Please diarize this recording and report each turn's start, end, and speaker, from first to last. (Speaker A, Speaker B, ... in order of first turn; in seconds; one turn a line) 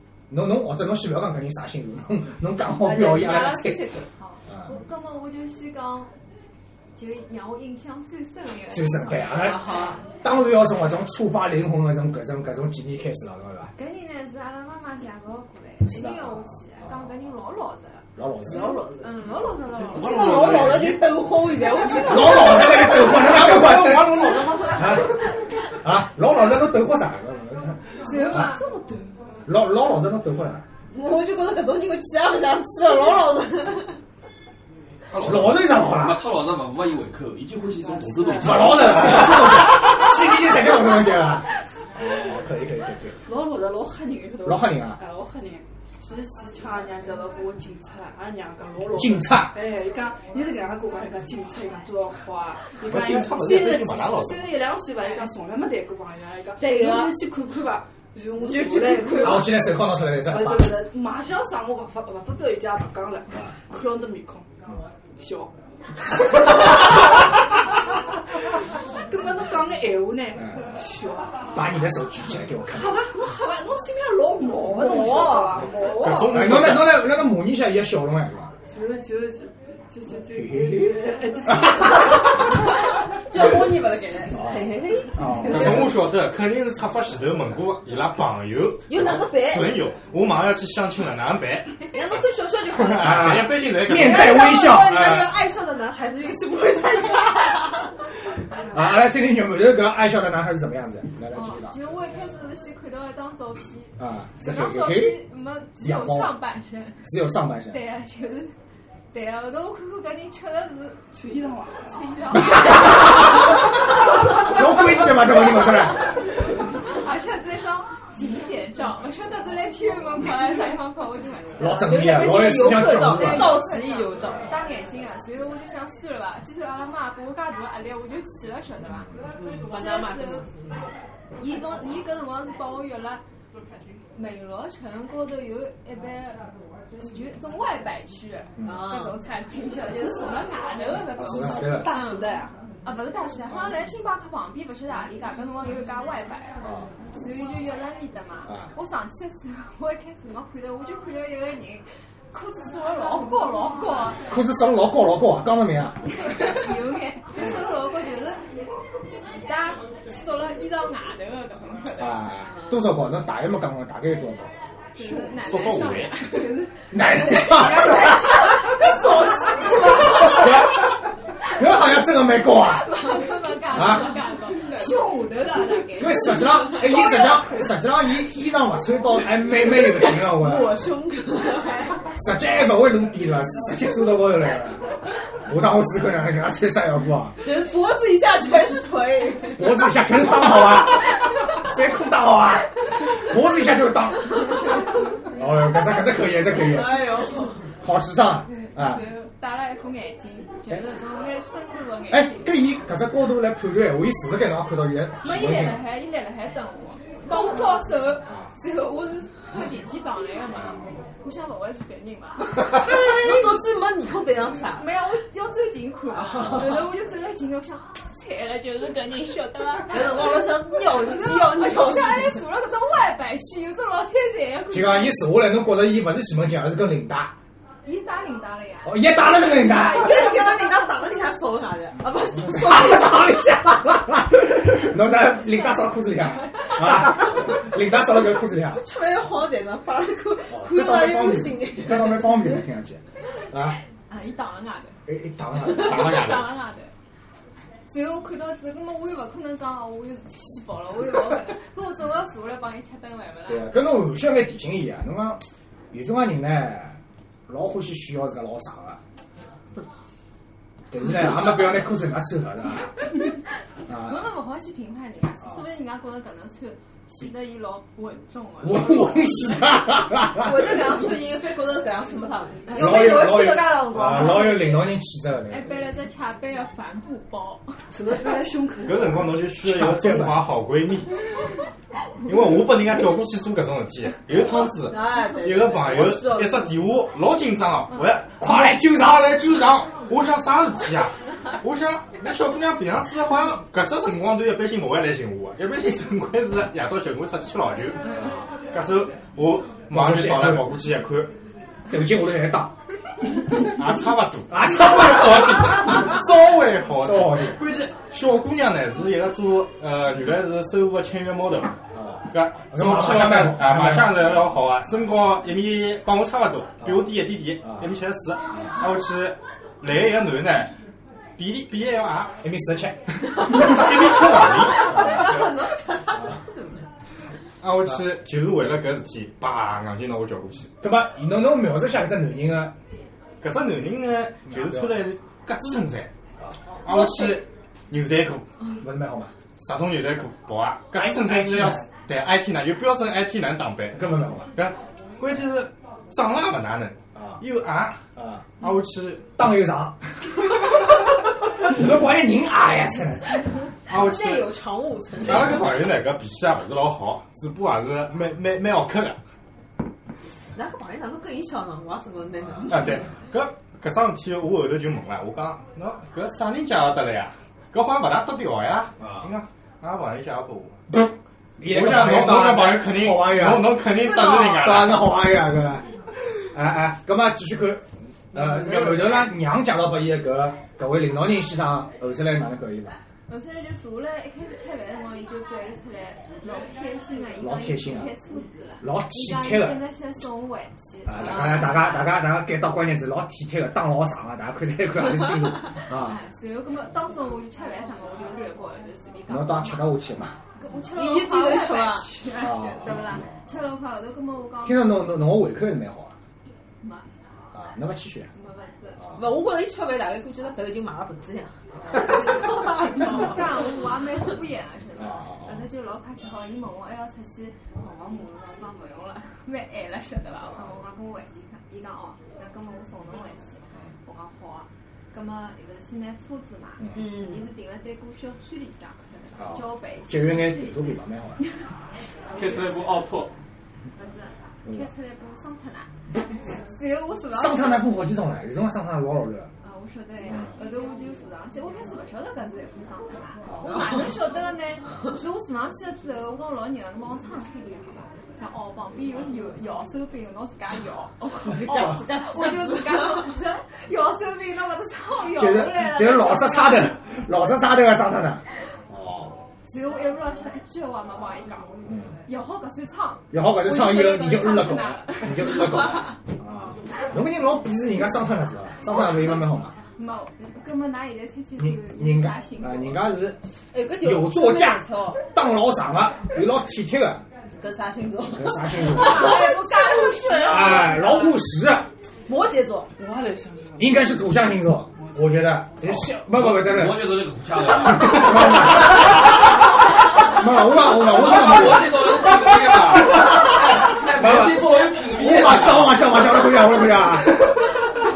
Speaker A: 0.3-3.8
Speaker B: 2.8-4.1
Speaker C: 4.2-6.1
Speaker A: 4.5-4.8
Speaker C: 6.9-10.0
Speaker A: 8.7-9.7
Speaker B: 9.2-10.0
Speaker A: 10.2-13.7
Speaker C: 13.8-20.5
Speaker A: 15.9-17.1
Speaker A: 18.2-18.8
Speaker B: 18.5-19.2
Speaker B: 19.9-25.2
Speaker D: 20.0-21.0
Speaker E: 20.2-20.9
Speaker A: 22.0-28.6
Speaker D: 23.6-24.3
Speaker C: 28.1-28.6
Speaker F: 28.1-29.1
Speaker A: 29.5-30.7
Speaker B: 30.9-34.0
Speaker E: 35.1-39.5
Speaker A: 35.2-36.2
Speaker F: 37.9-38.7
Speaker A: 38.4-43.2
Speaker F: 43.2-59.6
Speaker A: 44.4-45.0
Speaker A: 48.9-49.6
Speaker D: 52.8-54.6
Speaker B: 56.6-57.1
Speaker B: 58.4-59.5
Speaker A: 59.2-60.8
Speaker F: 60.1-64.5
Speaker F: 65.2-65.5
Speaker F: 66.3-67.2
Speaker F: 69.0-71.6
Speaker A: 70.4-70.7
Speaker A: 71.5-73.0
Speaker F: 72.6-76.3
Speaker B: 74.6-76.3
Speaker D: 75.9-77.1
Speaker A: 76.2-78.5
Speaker F: 78.7-82.5
Speaker A: 80.3-82.1
Speaker B: 83.1-85.9
Speaker A: 84.3-85.9
Speaker D: 85.3-91.9
Speaker B: 88.9-89.8
Speaker B: 91.9-98.0
Speaker D: 92.7-95.3
Speaker A: 93.0-95.1
Speaker A: 98.7-101.8
Speaker C: 101.3-107.0
Speaker A: 104.0-105.2
Speaker A: 105.8-106.4
Speaker A: 107.0-107.8
Speaker C: 107.7-108.5
Speaker C: 109.1-111.0
Speaker F: 111.1-111.8
Speaker C: 111.8-113.3
Speaker A: 112.3-113.5
Speaker A: 114.2-116.1
Speaker C: 116.8-122.1
Speaker A: 121.6-123.7
Speaker B: 121.8-124.6
Speaker C: 122.7-129.1
Speaker A: 128.8-129.3
Speaker B: 129.3-130.9
Speaker C: 129.6-130.5
Speaker C: 131.4-133.2
Speaker C: 134.1-136.5
Speaker C: 137.0-154.3
Speaker B: 138.6-139.2
Speaker A: 141.1-141.9
Speaker B: 141.7-142.5
Speaker F: 141.9-142.5
Speaker A: 146.6-146.9
Speaker A: 148.5-148.7
Speaker A: 154.2-156.1
Speaker C: 156.2-158.4
Speaker C: 159.2-162.4
Speaker A: 162.0-164.5
Speaker C: 164.9-167.7
Speaker D: 165.3-166.3
Speaker A: 166.9-168.6
Speaker B: 167.3-170.6
Speaker C: 168.7-170.3
Speaker A: 170.1-173.1
Speaker C: 172.5-177.6
Speaker A: 173.7-174.3
Speaker A: 175.9-180.8
Speaker B: 180.0-181.9
Speaker C: 181.6-182.0
Speaker A: 182.1-187.4
Speaker B: 187.4-189.9
Speaker A: 189.6-197.1
Speaker B: 196.5-197.7
Speaker A: 197.8-199.1
Speaker C: 198.8-202.6
Speaker A: 202.1-205.9
Speaker C: 205.2-213.6
Speaker A: 207.4-207.6
Speaker A: 208.3-208.5
Speaker A: 210.6-210.8
Speaker B: 212.7-214.9
Speaker C: 214.8-225.2
Speaker B: 216.2-216.8
Speaker A: 216.4-216.7
Speaker B: 219.9-222.5
Speaker A: 224.7-227.3
Speaker C: 227.8-230.7
Speaker A: 228.8-230.3
Speaker B: 229.8-233.4
Speaker A: 232.3-238.8
Speaker B: 238.7-242.6
Speaker A: 240.5-243.8
Speaker C: 244.1-245.0
Speaker A: 245.1-246.4
Speaker C: 245.6-246.9
Speaker D: 245.8-246.5
Speaker C: 247.9-253.7
Speaker A: 253.5-259.0
Speaker A: 260.9-263.1
Speaker A: 263.9-264.3
Speaker C: 263.9-269.5
Speaker A: 268.6-271.0
Speaker B: 270.4-274.8
Speaker C: 272.7-273.0
Speaker A: 272.7-275.8
Speaker C: 275.5-277.9
Speaker F: 277.9-279.4
Speaker D: 278.8-281.3
Speaker A: 279.6-280.4
Speaker D: 282.2-298.2
Speaker B: 284.4-286.8
Speaker A: 288.4-289.6
Speaker D: 298.7-301.3
Speaker A: 299.9-300.8
Speaker A: 301.9-302.8
Speaker D: 303.6-320.7
Speaker A: 304.5-306.2
Speaker A: 307.0-307.6
Speaker A: 311.9-314.4
Speaker A: 316.8-317.1
Speaker A: 317.6-317.9
Speaker D: 321.4-322.4
Speaker A: 322.4-323.1
Speaker D: 323.3-325.4
Speaker B: 324.4-326.9
Speaker A: 325.0-325.2
Speaker D: 327.6-330.7
Speaker A: 330.8-332.8
Speaker D: 333.4-336.1
Speaker A: 334.5-335.1
Speaker A: 336.4-336.8
Speaker D: 336.8-338.5
Speaker A: 338.8-339.3
Speaker D: 339.6-348.1
Speaker A: 340.9-341.9
Speaker A: 343.9-344.5
Speaker A: 347.1-347.4
Speaker A: 348.2-348.5
Speaker D: 348.6-349.4
Speaker A: 349.4-350.0
Speaker A: 351.6-353.7
Speaker D: 353.9-354.5
Speaker B: 353.9-355.7
Speaker D: 355.2-359.2
Speaker B: 360.5-363.1
Speaker D: 362.7-370.8
Speaker A: 369.0-369.3
Speaker A: 371.6-375.9
Speaker D: 371.6-375.1
Speaker B: 374.1-374.5
Speaker A: 376.5-383.0
Speaker B: 378.4-379.1
Speaker C: 383.3-392.2
Speaker A: 387.4-388.1
Speaker A: 388.8-389.9
Speaker A: 391.1-396.2
Speaker B: 391.2-391.9
Speaker C: 395.7-405.1
Speaker A: 399.3-400.4
Speaker B: 400.9-402.1
Speaker A: 402.3-403.4
Speaker A: 404.6-406.1
Speaker C: 406.8-407.1
Speaker A: 407.5-408.3
Speaker C: 408.3-409.0
Speaker B: 409.1-413.4
Speaker C: 412.1-431.6
Speaker A: 415.0-415.7
Speaker A: 420.4-420.8
Speaker B: 426.9-427.5
Speaker A: 429.4-431.4
Speaker C: 432.3-433.0
Speaker D: 432.4-433.3
Speaker C: 434.0-435.9
Speaker A: 434.6-434.9
Speaker C: 436.5-438.0
Speaker A: 437.3-439.5
Speaker C: 439.6-457.0
Speaker A: 443.4-444.1
Speaker B: 451.5-453.1
Speaker A: 455.3-459.4
Speaker C: 459.6-461.7
Speaker A: 461.9-462.2
Speaker C: 462.3-466.0
Speaker A: 463.3-469.8
Speaker C: 469.9-473.1
Speaker A: 471.6-473.4
Speaker B: 473.7-475.2
Speaker A: 474.0-477.2
Speaker B: 477.6-481.3
Speaker A: 478.3-479.6
Speaker C: 478.8-481.1
Speaker A: 480.4-481.9
Speaker B: 482.3-482.9
Speaker F: 483.0-484.0
Speaker A: 483.8-487.2
Speaker E: 485.8-489.1
Speaker A: 487.8-489.5
Speaker A: 490.1-492.1
Speaker E: 490.9-496.4
Speaker A: 494.1-497.4